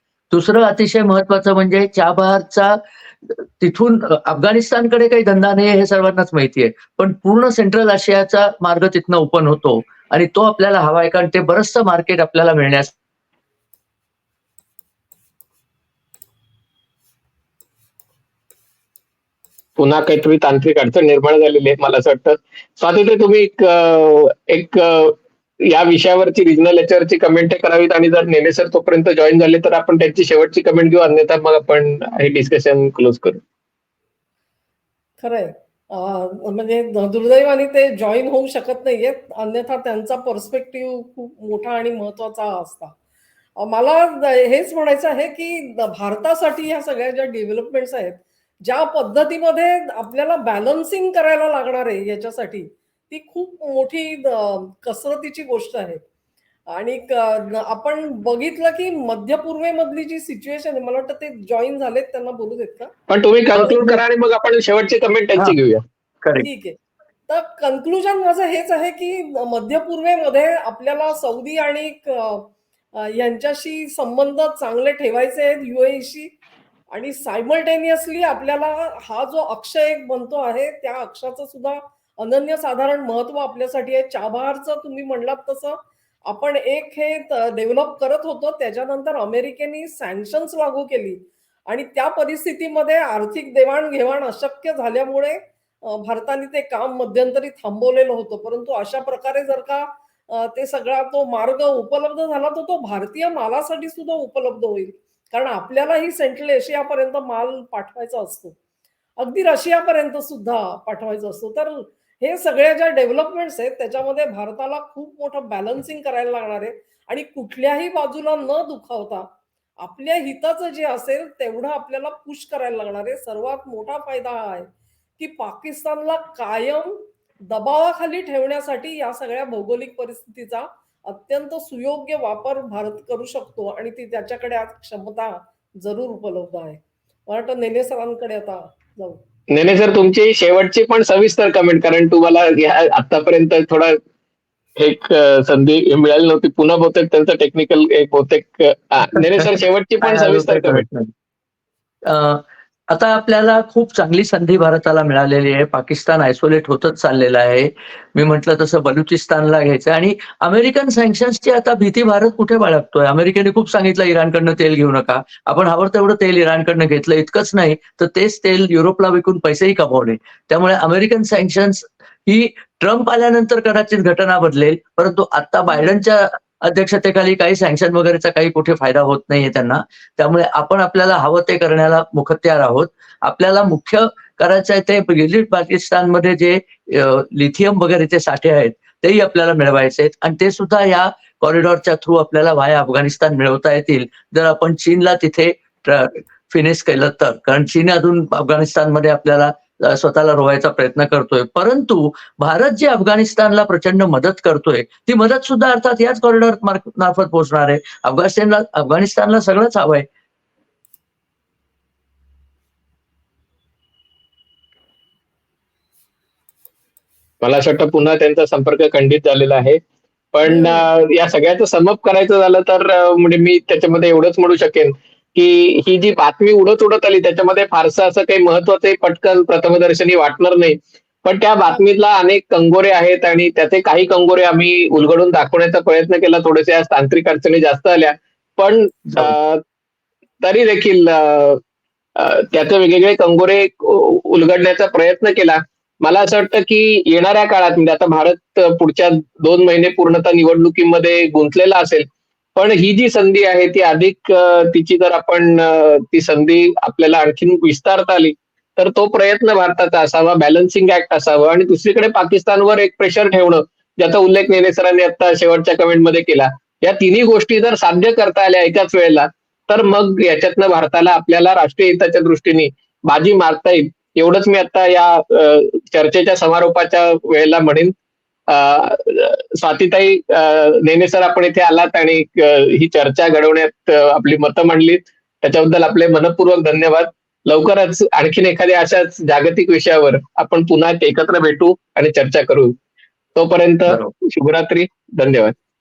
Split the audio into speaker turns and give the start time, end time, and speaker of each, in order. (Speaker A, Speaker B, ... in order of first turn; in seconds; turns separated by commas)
Speaker A: 0.3-12.9, Speaker B: 19.8-33.4, Speaker C: 35.2-43.0, Speaker C: 43.6-56.0, Speaker C: 56.7-62.9, Speaker B: 63.1-65.8, Speaker A: 63.6-64.0, Speaker A: 66.2-66.5, Speaker C: 66.4-66.8, Speaker C: 67.3-76.3, Speaker C: 76.9-108.5, Speaker C: 109.2-119.3, Speaker C: 119.8-139.2, Speaker B: 139.5-144.0, Speaker B: 144.8-150.8, Speaker A: 149.2-149.5, Speaker A: 150.0-151.1, Speaker A: 152.0-210.1, Speaker B: 217.4-219.8, Speaker B: 220.3-239.6, Speaker C: 220.5-220.9, Speaker B: 240.4-241.6, Speaker B: 242.2-277.9, Speaker B: 278.5-292.8, Speaker B: 293.4-295.6, Speaker A: 293.9-294.1